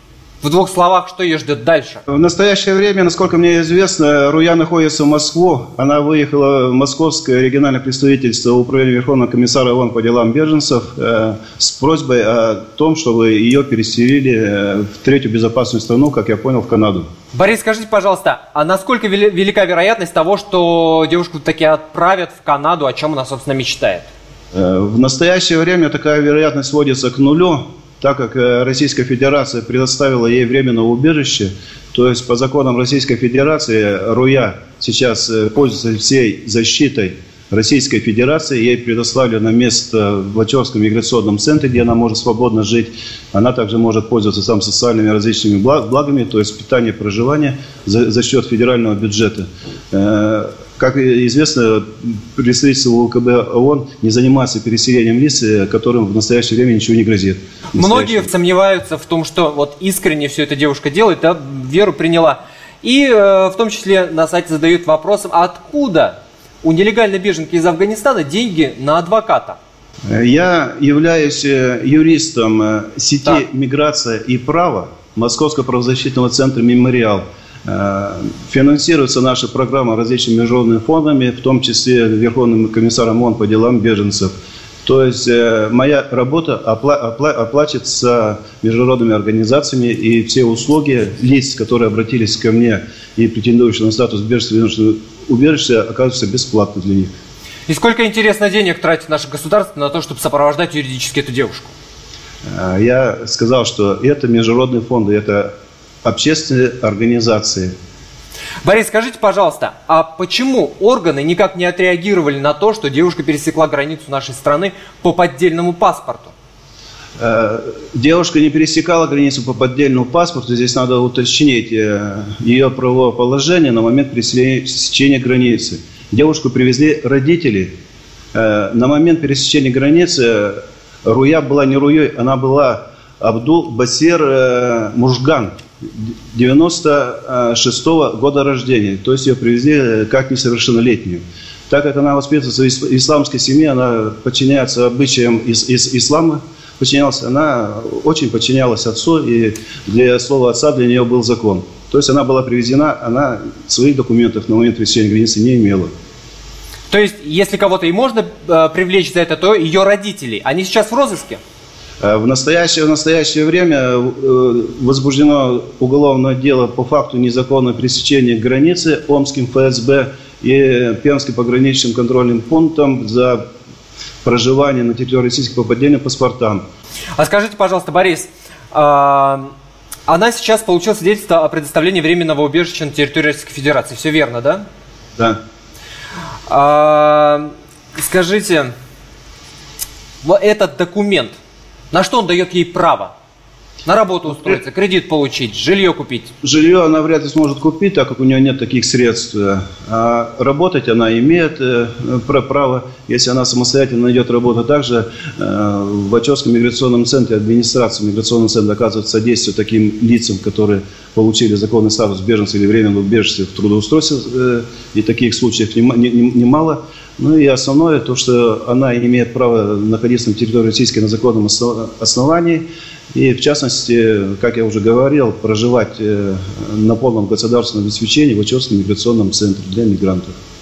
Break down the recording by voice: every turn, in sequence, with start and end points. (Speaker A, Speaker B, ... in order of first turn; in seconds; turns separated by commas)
Speaker A: 0.4-2.0, Speaker B: 2.1-17.1, Speaker A: 17.3-24.1, Speaker B: 24.5-58.3, Speaker A: 57.8-69.6, Speaker B: 70.1-84.3, Speaker B: 84.8-97.1, Speaker A: 97.7-101.7, Speaker B: 102.5-105.5, Speaker B: 106.0-107.7, Speaker A: 108.6-116.3, Speaker B: 117.2-127.7, Speaker B: 128.3-155.9, Speaker A: 156.9-161.4, Speaker B: 162.0-173.4, Speaker B: 174.2-176.6, Speaker A: 177.2-179.5, Speaker A: 180.1-184.7, Speaker A: 186.5-188.7, Speaker A: 190.2-191.4, Speaker A: 191.9-193.1, Speaker A: 193.8-196.3, Speaker B: 196.4-230.3